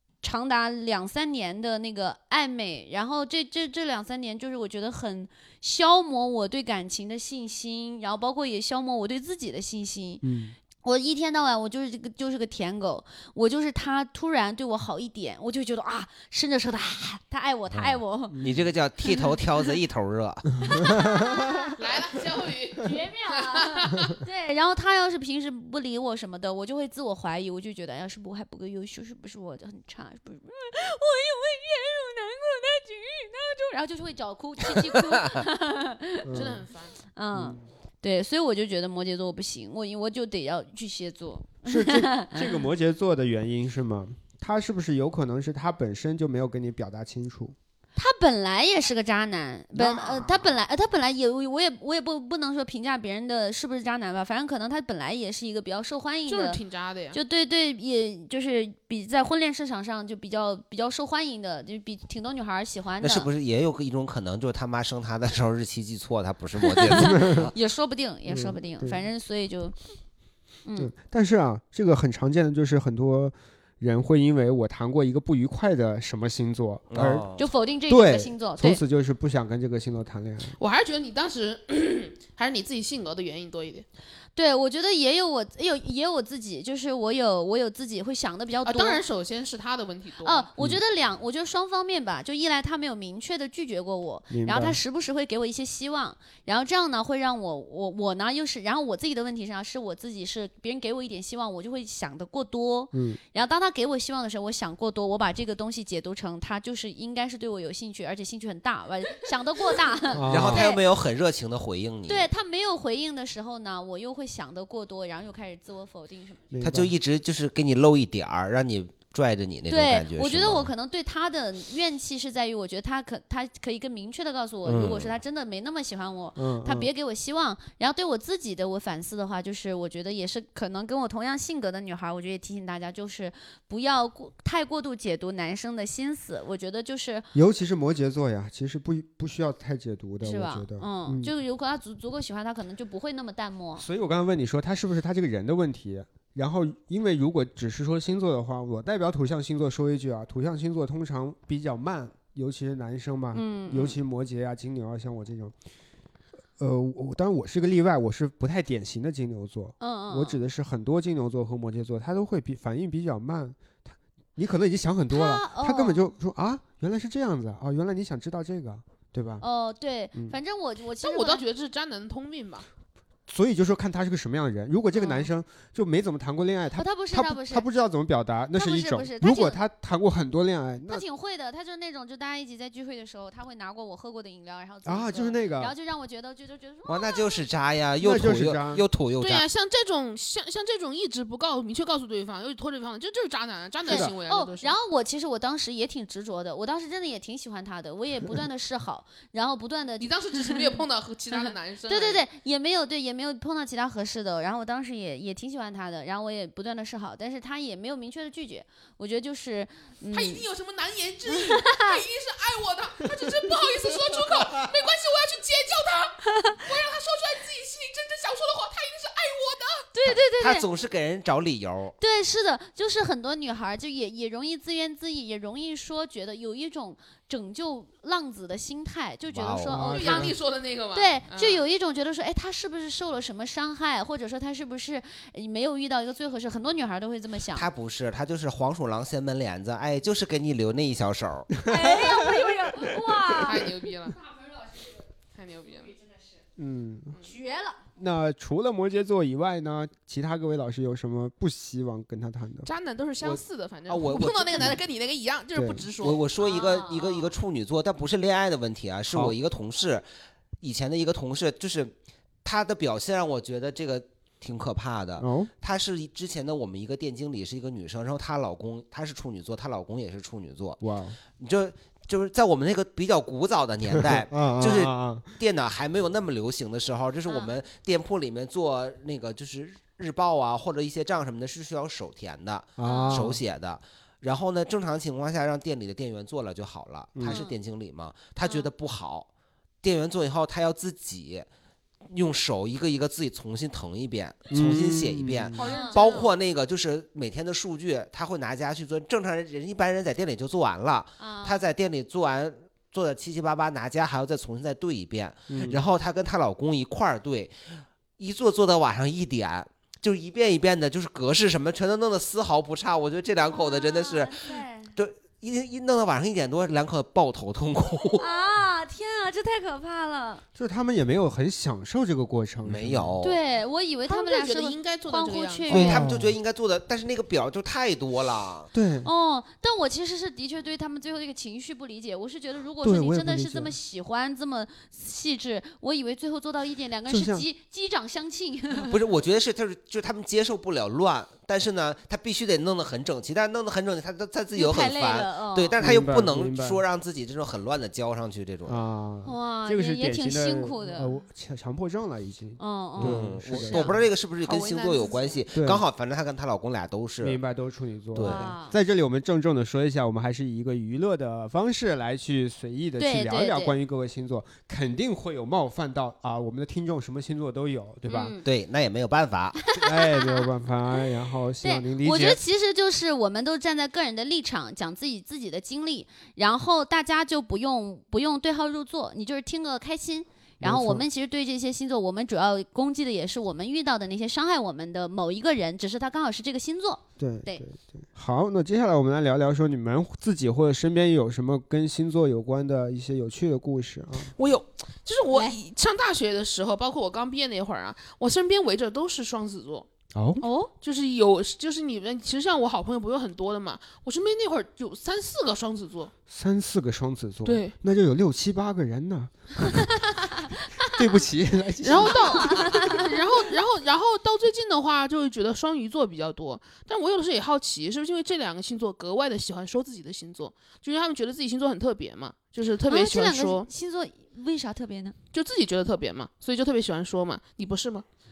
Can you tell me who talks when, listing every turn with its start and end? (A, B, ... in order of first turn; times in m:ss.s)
0:00.2-0:10.2 A
0:10.2-0:10.6 B
0:10.8-0:18.4 A
0:17.7-0:20.7 C
0:18.3-0:18.7 B
0:20.6-0:21.8 A
0:20.7-0:21.4 B
0:21.8-0:24.2 D
0:22.8-0:36.5 A
0:36.2-0:36.6 B
0:36.3-0:37.0 D
0:37.1-0:42.6 A
0:37.3-0:37.6 B
0:41.6-0:47.6 B
0:48.0-0:56.6 A
0:49.7-0:50.4 B
0:56.3-0:57.2 D
0:57.1-1:03.3 A
1:03.0-1:07.5 C
1:06.7-1:09.7 A
1:07.0-1:07.5 B
1:08.3-1:09.0 B
1:10.6-1:10.9 A
1:10.8-1:17.3 B
1:16.9-1:17.5 C
1:17.4-1:18.8 A
1:17.9-1:20.6 B
1:20.6-1:23.8 D
1:24.4-1:29.0 A
1:28.6-1:30.5 D
1:30.2-1:50.8 A
1:34.3-1:34.8 B
1:42.9-1:43.2 B
1:50.1-1:50.6 B
1:50.2-1:52.3 C
1:52.1-1:56.4 A
1:56.5-1:56.9 B
1:56.6-2:00.7 C
1:59.7-2:17.2 A
2:04.6-2:05.1 C
2:06.4-2:06.9 B
2:17.3-2:21.3 B
2:20.2-2:23.8 A
2:23.8-2:35.5 B
2:33.3-2:34.0 A
2:36.6-2:49.4 B
2:39.8-2:40.4 A
2:45.1-2:46.1 A
2:49.4-2:51.4 A
2:51.0-2:52.6 D
2:53.3-3:01.0 B
2:54.9-2:55.3 A
2:56.8-2:57.6 A
2:58.5-2:59.6 A
3:00.9-3:07.3 A
3:04.8-3:05.7 B
3:06.8-3:09.4 C
3:08.0-3:08.8 B
3:09.2-3:14.7 D
3:13.8-3:20.7 A
3:13.9-3:14.1 B
3:20.0-3:22.2 D
3:21.3-3:30.4 A
3:30.1-3:39.9 D
3:31.4-3:32.0 A
3:36.3-3:36.6 A
3:39.9-3:40.6 A
3:40.3-3:42.0 C
3:42.0-3:50.3 A
3:49.3-3:49.9 C
3:49.7-3:50.4 B
3:49.8-3:51.6 D
3:50.9-3:57.7 A
3:57.5-4:01.5 C
4:01.6-4:03.0 B
4:01.6-4:03.7 A
4:03.3-4:04.2 D
4:05.3-4:06.0 D
4:06.6-4:07.2 B
4:07.2-4:07.8 A
4:08.0-4:12.7 B
4:12.6-4:16.2 D
4:13.2-4:14.8 C
4:15.5-4:15.9 B
4:16.0-4:20.0 C
4:16.4-4:17.3 A
4:19.1-4:19.4 B
4:20.6-4:21.9 C
4:22.4-4:30.8 C
4:25.2-4:25.5 B
4:30.8-4:31.2 B
4:31.4-4:49.3 C
4:33.9-4:35.3 B
4:37.3-4:37.5 A
4:42.8-4:43.4 B
4:42.8-4:43.3 A
4:47.1-4:47.4 B
4:47.2-4:47.6 A
4:48.4-4:48.7 A
4:49.8-4:51.5 C
4:52.1-5:18.3 C
4:54.5-4:55.6 B
4:55.5-4:56.3 D
4:55.6-4:56.1 A
5:01.2-5:01.6 A
5:05.5-5:05.8 B
5:13.5-5:14.9 A
5:18.2-5:20.4 A
5:20.6-5:23.1 B
5:22.6-5:23.4 C
5:23.2-5:26.1 A
5:24.1-5:25.9 D
5:25.7-5:28.7 C
5:25.7-5:26.4 B
5:28.7-5:29.1 B
5:29.0-5:39.0 A
5:32.8-5:33.7 B
5:37.1-5:37.4 B
5:38.8-5:48.8 C
5:44.5-5:45.7 A
5:45.8-5:46.8 B
5:48.6-5:54.0 B
5:49.2-5:51.2 A
5:52.6-5:53.9 A
5:53.0-5:57.4 C
5:54.4-5:55.4 D
5:55.5-5:55.8 B
5:57.2-6:08.4 B
5:58.1-5:58.5 C
5:58.2-5:58.8 A
6:03.0-6:03.8 A
6:08.1-6:08.4 A
6:08.4-6:09.6 C
6:09.6-6:10.5 A
6:09.7-6:12.4 B
6:11.6-6:27.6 A
6:20.6-6:21.0 B
6:27.2-6:34.3 B
6:34.3-6:39.9 D
6:35.3-6:35.6 A
6:40.1-6:40.4 B
6:40.4-6:40.7 A
6:40.7-6:46.1 D
6:46.3-6:50.0 B
6:47.4-6:47.7 D
6:50.3-6:50.9 A
6:50.8-6:53.1 B
6:51.8-7:03.7 D
6:52.2-6:53.0 A
7:02.9-7:05.2 A
7:05.3-7:08.0 D